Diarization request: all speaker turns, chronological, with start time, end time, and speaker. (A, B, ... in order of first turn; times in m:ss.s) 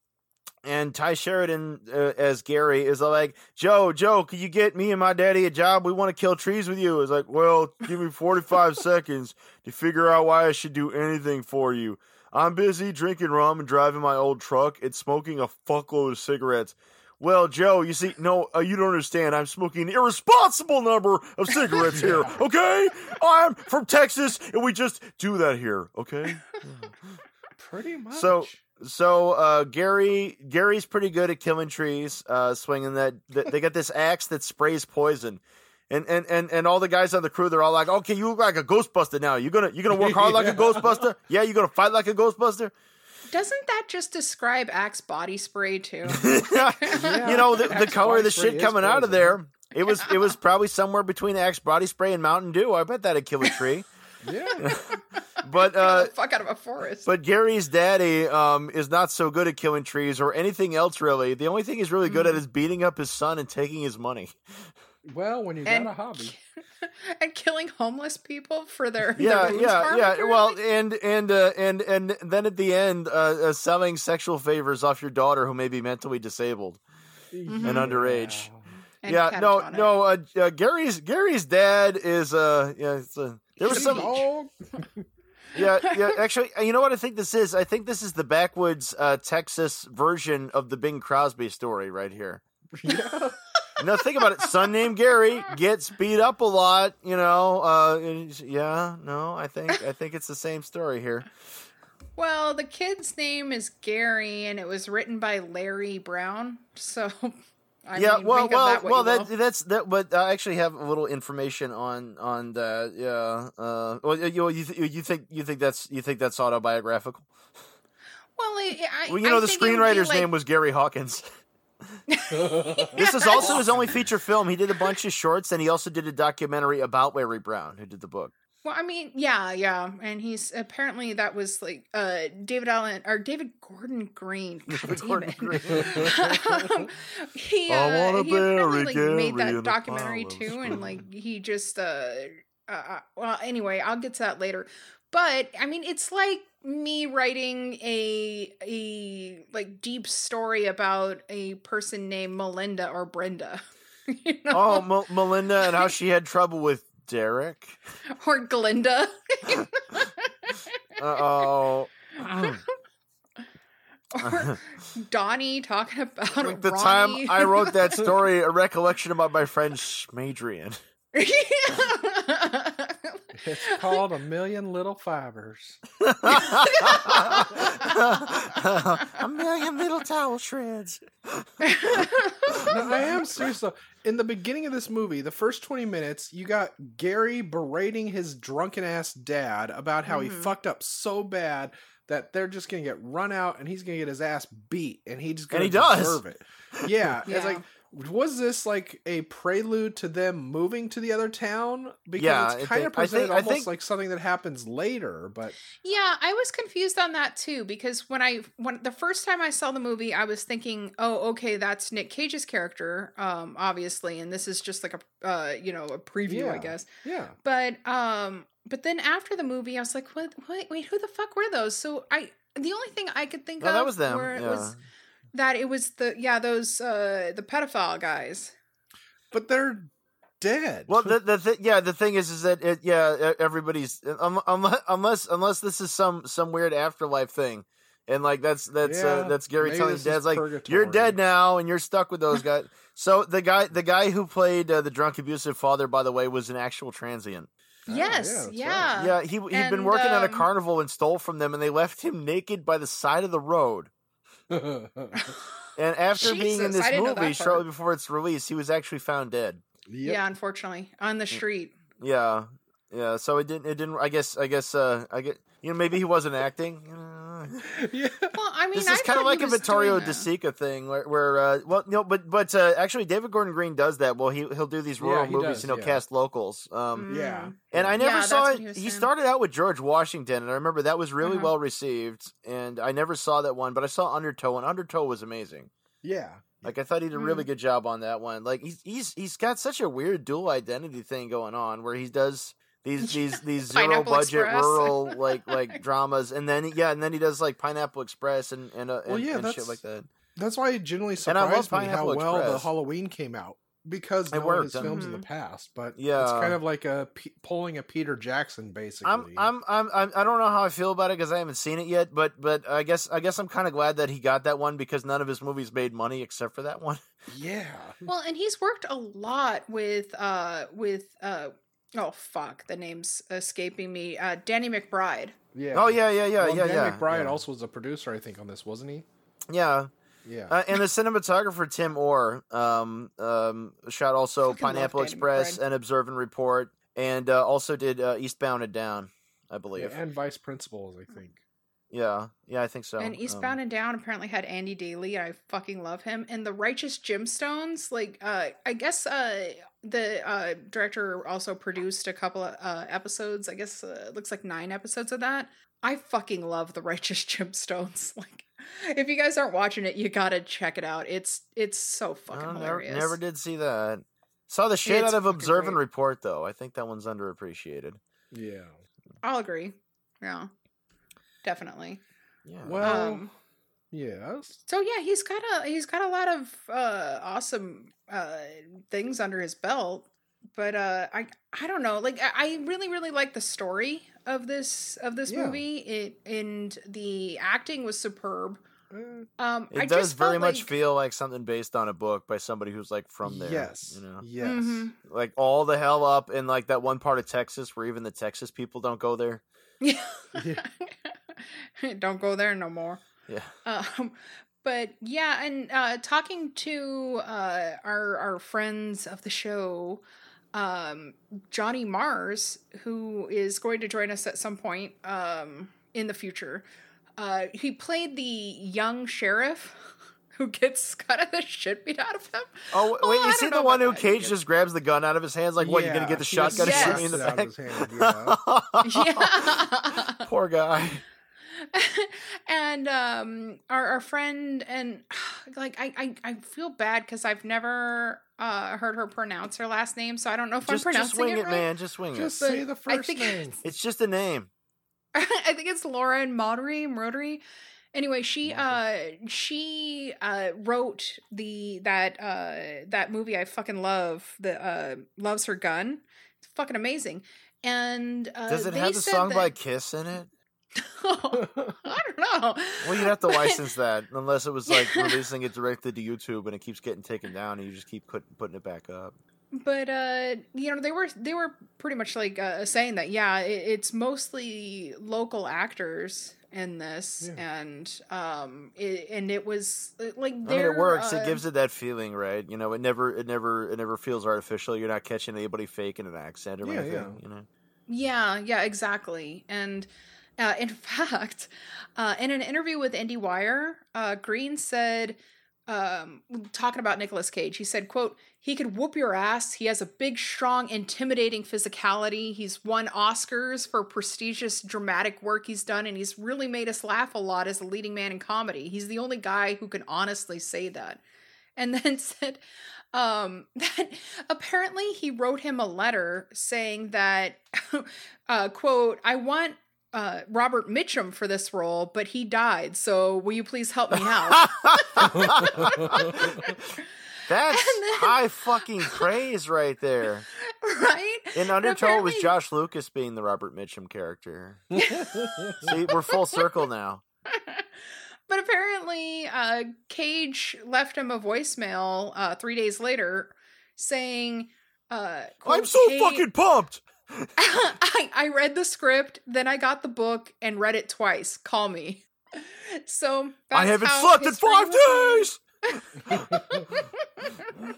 0:00.6-0:26.9 A
0:21.9-0:22.4 B
0:27.6-0:28.6 B
0:28.1-0:42.7 A
0:39.9-0:41.0 B
0:43.3-0:47.7 C
0:46.1-0:53.9 A
0:46.9-0:49.4 B
0:49.9-0:50.2 C
0:54.2-0:54.6 B
0:54.6-0:56.1 A
0:54.6-0:57.1 C
0:57.0-1:04.4 A
1:02.1-1:02.4 C
1:05.0-1:06.3 B
1:05.6-1:10.6 C
1:09.2-1:16.8 A
1:09.2-1:09.7 B
1:17.3-1:18.6 B
1:17.5-1:17.9 C
1:17.6-1:18.5 A
1:19.0-1:19.9 C
1:19.1-1:24.2 A
1:23.6-1:24.2 C
1:23.7-1:25.0 B
1:25.5-1:32.4 A
1:32.8-1:33.4 B
1:33.8-1:41.3 A
1:34.4-1:34.7 C
1:42.2-1:49.3 C
1:48.0-1:57.3 A
1:58.4-2:00.3 C
1:59.1-2:01.3 A
2:02.1-2:03.6 C
2:02.3-2:02.9 B
2:02.9-2:08.3 A
2:03.6-2:04.0 B
2:08.6-2:34.9 C
2:14.7-2:16.2 A
2:15.8-2:16.6 B
2:17.7-2:21.0 A
2:34.5-2:37.8 A
2:35.6-2:35.9 C
2:38.1-2:41.5 C
2:41.0-2:42.6 A
2:42.2-2:42.6 C
2:44.1-2:48.1 C
2:44.2-2:44.6 A
2:46.4-2:50.8 A
2:51.1-2:54.0 C
2:53.4-2:55.8 B
2:56.0-3:03.0 A
2:56.3-2:59.1 C
3:01.6-3:02.7 C
3:02.6-3:25.6 B
3:10.1-3:10.5 C
3:15.5-3:16.2 A
3:17.3-3:17.6 C
3:22.2-3:23.7 A
3:25.8-3:36.9 C
3:36.3-3:37.4 B
3:37.4-3:44.8 C
3:43.6-3:44.8 A
3:45.3-3:48.6 C
3:49.3-3:51.1 B
3:50.9-4:07.5 A
3:58.8-4:01.2 B
4:07.9-4:08.9 B
4:07.9-4:10.5 C
4:09.0-4:13.9 A
4:14.5-4:15.3 B
4:15.2-4:15.5 C
4:15.8-4:19.6 A
4:16.2-4:17.6 C
4:19.9-4:20.2 B
4:20.0-4:21.8 C
4:22.0-4:27.7 A
4:27.7-4:28.4 B
4:28.3-4:30.3 C
4:28.7-4:45.7 A
4:35.0-4:36.0 B
4:37.0-4:39.1 C
4:37.1-4:38.0 B
4:41.2-4:41.5 C
4:46.0-4:46.7 B
4:46.6-5:00.1 A
4:47.1-4:47.5 C
4:53.0-4:55.8 C
4:59.1-4:59.8 B
5:00.4-5:09.5 B
5:01.3-5:02.7 A
5:04.3-5:05.0 A
5:04.8-5:05.2 C
5:06.0-5:06.6 A
5:09.0-5:17.0 A
5:17.3-5:18.0 B
5:18.1-5:25.4 C
5:25.5-5:29.1 B
5:25.7-5:27.4 A
5:29.5-5:29.9 A
5:30.2-5:30.6 B
5:30.5-5:40.0 A
5:34.5-5:35.6 C
5:39.8-5:41.4 B
5:41.9-5:43.6 A
5:43.0-6:03.2 C
6:02.3-6:08.0 A
6:04.8-6:05.8 C
6:08.3-6:08.8 B
6:09.2-6:10.5 C
6:11.4-6:12.0 C
6:12.5-6:13.0 A
6:12.6-6:13.3 B
6:12.8-6:13.3 C
6:13.9-6:14.6 B
6:14.7-6:28.6 C
6:25.3-6:25.6 B
6:28.9-6:29.3 B
6:29.4-6:30.7 C
6:29.7-6:34.2 A
6:33.2-6:34.9 B
6:34.4-6:34.9 C
6:35.0-6:39.4 A
6:39.8-6:43.0 C
6:40.4-6:40.6 B
6:43.6-6:50.0 C
6:50.5-6:56.6 C
6:57.2-7:04.3 C
7:02.7-7:11.0 A
7:05.6-7:08.4 B
7:06.5-7:07.2 C
7:08.8-7:10.3 C
7:11.6-7:21.7 C
7:20.6-7:22.4 A
7:22.1-7:23.6 B
7:22.4-7:23.6 C
7:23.6-7:24.5 A
7:25.2-7:27.4 C
7:27.9-7:39.5 C
7:28.5-7:28.8 B
7:38.5-7:40.3 A
7:40.8-7:43.6 C
7:41.4-7:41.7 B
7:42.8-7:49.1 A
7:44.7-7:45.2 C
7:49.5-8:01.4 C
8:00.4-8:07.5 A
8:06.6-8:07.2 B
8:07.9-8:31.0 C
8:31.6-8:32.4 C
8:32.9-8:46.6 C
8:44.3-8:46.6 A
8:47.3-8:50.3 A
8:47.5-8:48.1 C
8:50.4-8:52.3 C
8:51.4-8:54.8 A
8:54.7-8:56.4 C
8:55.2-8:55.6 B
8:55.6-8:57.0 A
8:57.3-8:57.7 C
8:58.3-9:06.3 C
9:05.4-9:07.3 A
9:07.4-9:17.6 C
9:13.5-9:16.7 A